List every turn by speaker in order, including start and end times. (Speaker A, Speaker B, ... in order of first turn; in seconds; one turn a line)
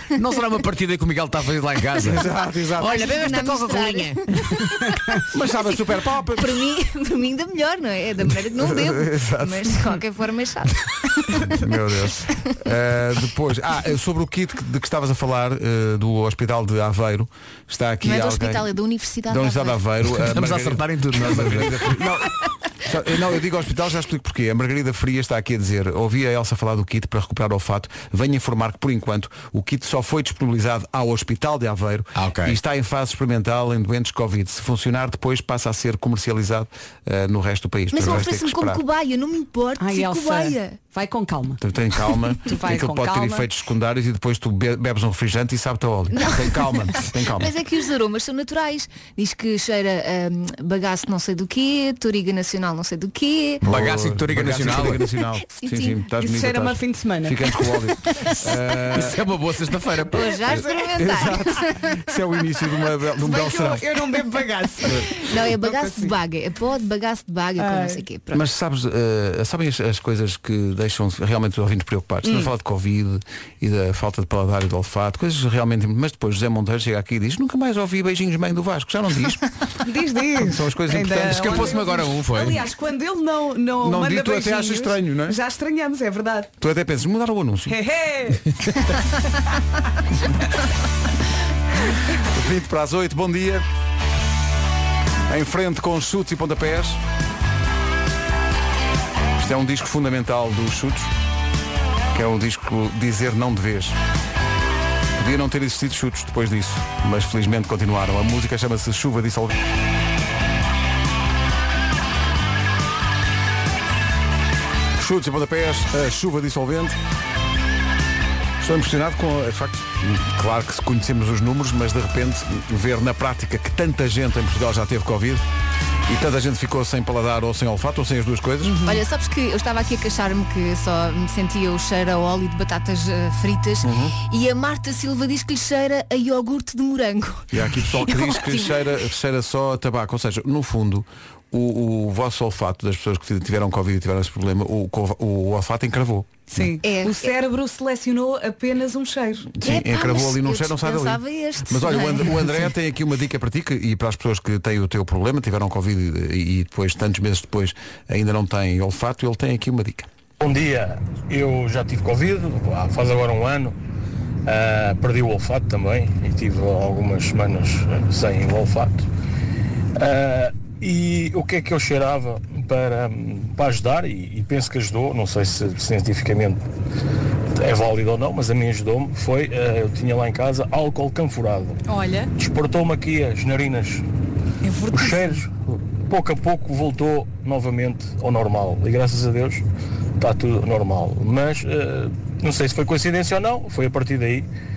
Speaker A: 0.1-4.2
Speaker B: 2.0-3.0
Speaker C: 2.8-5.2
Speaker B: 5.3-6.5
Speaker C: 6.4-11.6
Speaker B: 8.5-9.8
Speaker B: 11.4-18.6
Speaker C: 18.0-19.8
Speaker B: 19.3-38.8
Speaker A: 20.1-22.0
Speaker A: 32.2-32.6
Speaker C: 37.9-40.8
Speaker D: 39.8-41.6
Speaker B: 41.6-47.5
Speaker D: 42.5-43.5
Speaker C: 47.4-53.6
Speaker A: 53.6-55.0
Speaker B: 53.6-59.2
Speaker C: 55.5-56.0
Speaker D: 56.2-57.4
Speaker A: 59.0-60.5
Speaker C: 60.1-62.0
Speaker B: 60.5-63.9
Speaker D: 63.2-66.1
Speaker B: 64.8-65.1
Speaker C: 65.0-68.4
Speaker D: 67.6-68.0
Speaker B: 68.3-79.5
Speaker D: 72.2-72.5
Speaker D: 79.8-86.5
Speaker B: 80.4-81.8
Speaker A: 81.2-82.7
Speaker B: 83.8-85.4
Speaker B: 86.6-87.8
Speaker D: 87.7-88.5
Speaker B: 92.2-93.7
Speaker B: 95.3-97.0
Speaker B: 99.4-101.1
Speaker B: 102.1-104.0
Speaker B: 105.2-109.6
Speaker B: 115.0-117.0
Speaker B: 118.6-125.4
Speaker B: 126.1-128.8
Speaker D: 128.6-129.0
Speaker C: 128.8-138.9
Speaker B: 133.8-134.2
Speaker B: 137.5-146.7
Speaker D: 146.5-149.5
Speaker C: 146.8-147.3
Speaker B: 149.5-160.1
Speaker C: 149.6-152.7
Speaker E: 160.4-163.8
Speaker E: 164.5-169.1
Speaker E: 170.0-176.6
Speaker E: 177.5-181.8
Speaker D: 181.9-182.3
Speaker E: 182.4-184.1
Speaker D: 184.6-185.4
Speaker E: 184.9-185.5
Speaker E: 186.1-189.6
Speaker E: 190.2-194.5